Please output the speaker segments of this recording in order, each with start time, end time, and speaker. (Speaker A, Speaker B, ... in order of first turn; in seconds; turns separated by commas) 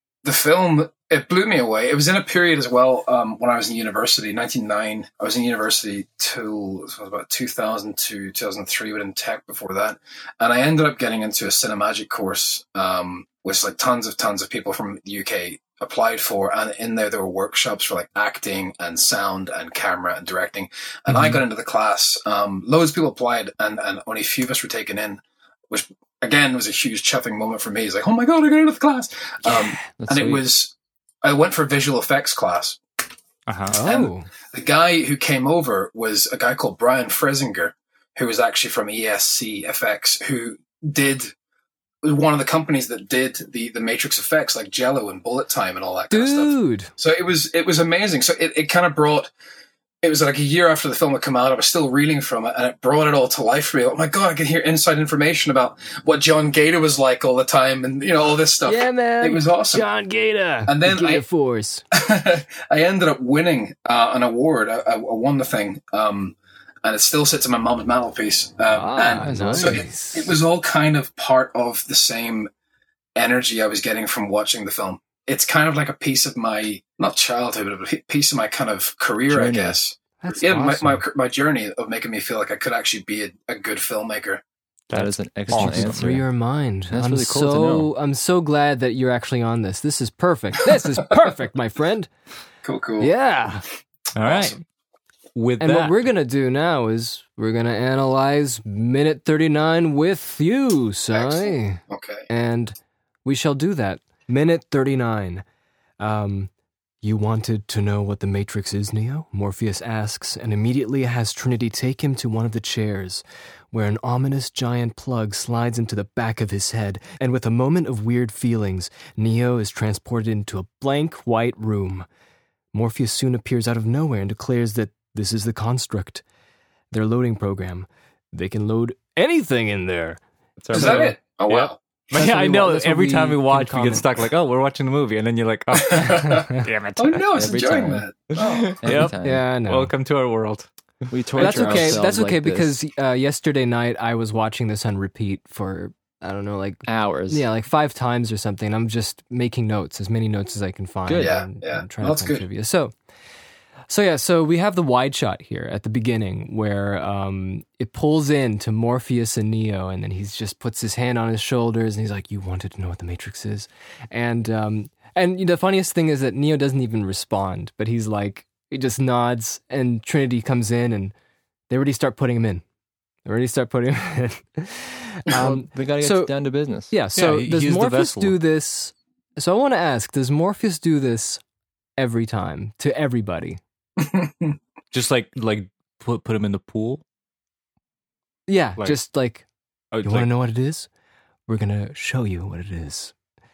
Speaker A: 0.2-32.8, Speaker B: 29.9-30.4, Speaker C: 33.5-33.8, Speaker D: 33.7-34.3, Speaker A: 33.8-41.3, Speaker A: 42.0-49.3, Speaker D: 46.1-46.9, Speaker A: 50.0-59.9, Speaker D: 58.6-61.8, Speaker A: 60.7-61.2, Speaker A: 61.9-72.5, Speaker D: 68.7-70.3, Speaker B: 69.2-69.8, Speaker A: 73.1-84.4, Speaker B: 79.3-79.8, Speaker D: 80.2-81.0, Speaker C: 84.9-86.0, Speaker B: 84.9-86.2, Speaker D: 85.5-92.1, Speaker B: 86.9-87.9, Speaker A: 92.6-93.1, Speaker D: 93.0-93.6, Speaker C: 94.1-94.6, Speaker A: 94.2-94.5, Speaker C: 95.3-96.0, Speaker D: 95.6-105.4, Speaker A: 101.1-102.3, Speaker D: 106.0-106.5, Speaker D: 107.0-122.1, Speaker D: 122.7-126.2, Speaker D: 126.9-130.2, Speaker C: 130.6-137.3, Speaker D: 130.7-131.1, Speaker A: 130.7-131.8, Speaker D: 132.1-134.1, Speaker A: 135.7-138.9, Speaker B: 137.3-138.1, Speaker C: 138.3-140.7, Speaker B: 138.8-139.4, Speaker D: 139.2-139.9, Speaker B: 141.1-142.8, Speaker D: 141.4-152.9, Speaker C: 141.4-141.8, Speaker B: 146.8-147.4, Speaker B: 151.1-151.4, Speaker A: 151.2-152.4, Speaker D: 153.9-171.1, Speaker D: 171.7-172.6, Speaker D: 173.2-181.4, Speaker B: 175.3-176.9, Speaker C: 177.1-178.4, Speaker D: 182.0-183.6, Speaker A: 184.0-184.6, Speaker C: 184.9-187.0, Speaker D: 188.5-189.4, Speaker C: 189.9-190.3, Speaker D: 190.0-190.9, Speaker D: 191.5-193.1